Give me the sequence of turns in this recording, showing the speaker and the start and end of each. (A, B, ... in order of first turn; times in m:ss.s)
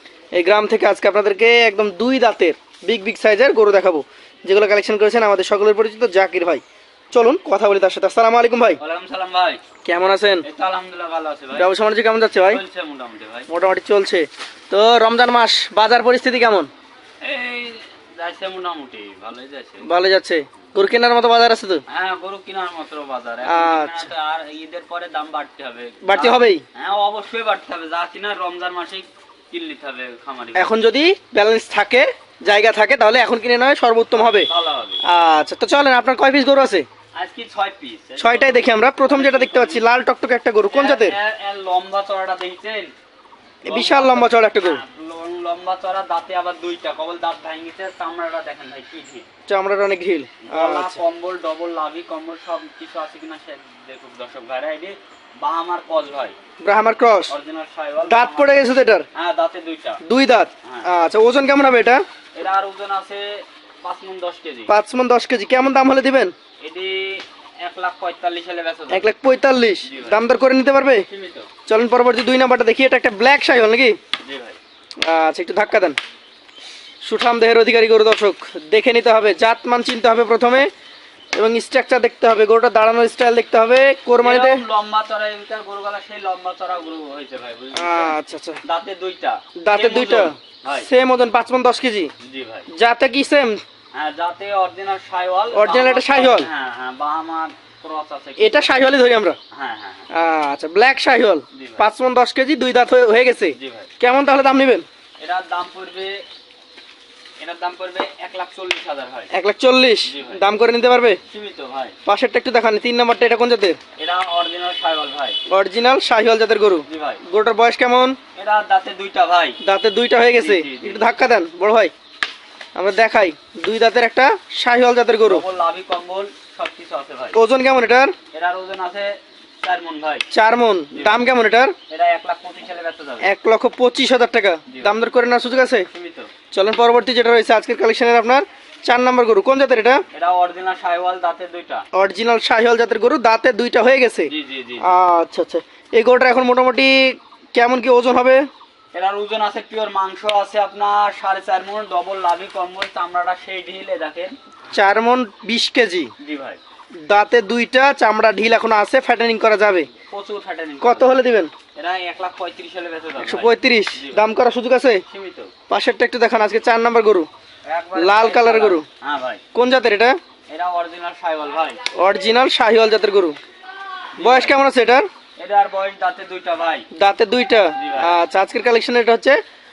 0:00.3-0:08.8 A
0:08.8-0:09.6 B
0:09.8-0:10.4 A
0:10.4-0:11.7 B
0:11.5-0:12.6 A
0:12.5-0:13.5 B
0:13.5-0:16.7 A
0:17.2-0:19.9 B
0:19.8-0:21.8 A
0:21.9-0:30.8 B
0:23.4-0:24.1 A
0:26.0-0:26.6 A
0:30.5-0:34.5 A
0:34.1-0:35.0 B
0:35.0-0:36.8 A
0:37.1-0:39.8 B
0:38.2-0:41.2 A
0:40.7-0:42.9 B
0:43.6-0:49.3 B
0:43.6-0:44.8 A
0:49.5-0:51.0 A
0:50.4-0:56.4 B
0:56.6-0:57.3 A
0:57.3-1:00.0 B
0:58.0-0:59.0 A
1:00.0-1:02.0 A
1:00.6-1:00.9 B
1:02.3-1:04.7 B
1:04.7-1:06.3 A
1:06.6-1:09.1 B
1:08.9-1:11.0 A
1:09.8-1:10.2 B
1:11.1-1:11.5 B
1:11.6-1:14.0 A
1:14.2-1:14.6 B
1:15.0-1:16.0 A
1:17.0-1:20.7 A
1:21.4-1:24.6 A
1:24.2-1:30.9 B
1:27.7-1:28.6 A
1:29.6-1:32.1 A
1:32.2-1:32.7 B
1:32.7-1:33.6 A
1:33.9-1:38.9 B
1:35.5-1:36.5 A
1:38.4-1:39.4 A
1:39.5-1:40.1 B
1:40.1-1:44.8 A
1:41.5-1:41.8 B
1:43.5-1:43.9 B
1:45.2-1:46.2 B
1:47.4-1:49.3 B
1:49.3-1:51.2 A
1:50.0-1:50.4 B
1:51.3-1:52.0 B
1:52.0-1:53.8 A
1:54.0-1:55.4 B
1:55.4-1:58.2 A
1:56.8-1:57.2 B
1:58.4-1:59.6 B
1:59.6-2:01.9 A
2:00.3-2:01.1 B
2:02.7-2:05.4 A
2:05.2-2:07.4 B
2:07.3-2:08.1 A
2:08.3-2:10.2 B
2:10.3-2:11.8 A
2:10.9-2:11.3 B
2:11.9-2:13.3 B
2:13.2-2:15.9 A
2:14.7-2:16.3 B
2:16.5-2:20.0 A
2:20.1-2:21.8 B
2:21.9-2:28.5 A
2:24.3-2:24.9 B
2:28.9-2:34.4 B
2:34.7-2:36.1 A
2:36.2-2:36.6 B
2:37.0-2:39.9 A
2:40.1-2:41.2 B
2:40.8-2:41.5 A
2:41.7-2:44.3 B
2:43.2-2:45.0 A
2:45.1-2:45.5 B
2:45.7-2:47.3 A
2:47.6-2:49.4 B
2:48.0-2:48.8 A
2:49.5-2:50.2 A
2:50.5-2:51.8 B
2:51.9-2:53.4 A
2:54.2-2:54.5 B
2:54.2-2:55.1 A
2:55.4-2:56.9 B
2:56.9-2:59.4 A
2:57.8-2:58.2 B